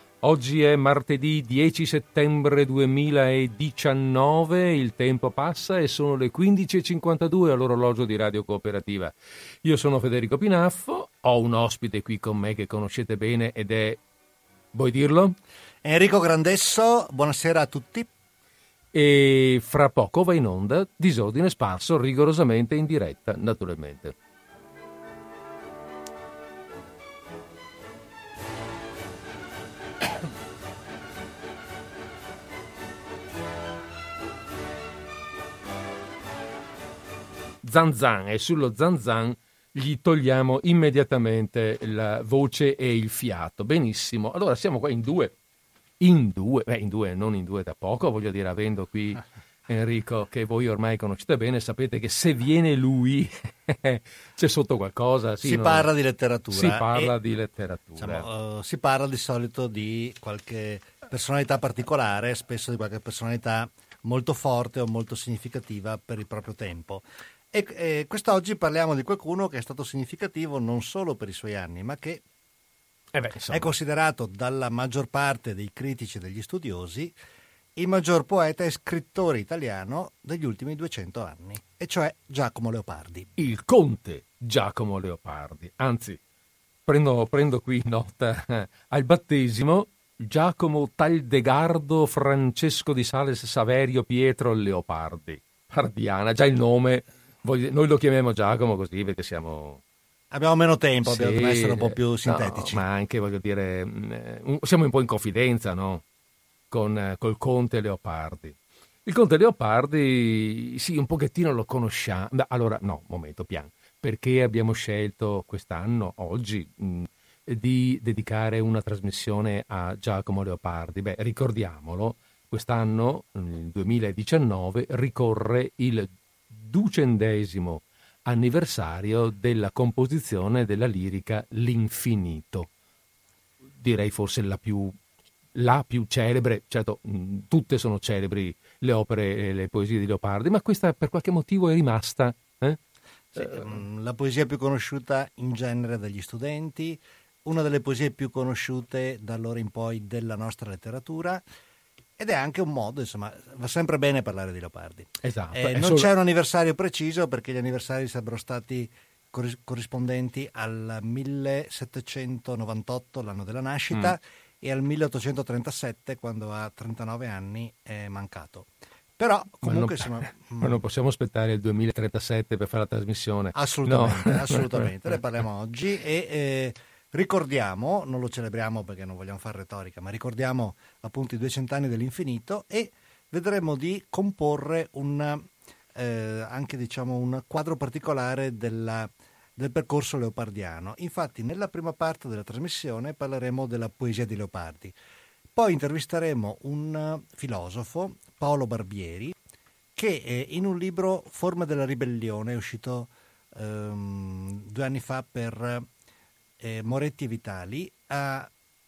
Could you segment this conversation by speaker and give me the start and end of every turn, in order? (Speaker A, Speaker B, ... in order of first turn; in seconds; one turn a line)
Speaker A: 0.2-14.0
Speaker A: 14.7-15.3
Speaker B: 15.8-18.1
Speaker A: 18.9-24.1
Speaker A: 37.6-45.3
Speaker A: 46.0-55.9
Speaker B: 55.4-57.1
Speaker A: 56.5-58.3
Speaker B: 58.0-72.2
Speaker A: 73.1-73.7
Speaker B: 73.5-77.1
Speaker B: 77.8-83.3
Speaker A: 83.4-86.2
Speaker A: 86.8-99.8
Speaker B: 100.3-102.8
Speaker A: 101.0-106.0
Speaker A: 106.7-132.7
Speaker A: 133.8-134.9
Speaker A: 135.5-142.8
Speaker B: 143.3-151.4
Speaker A: 143.3-143.8
Speaker B: 152.2-170.8
Speaker A: 155.2-156.1
Speaker A: 169.6-174.9
Speaker B: 173.5-194.9
Speaker B: 195.5-199.4
Speaker B: 199.9-205.9
Speaker B: 206.6-208.5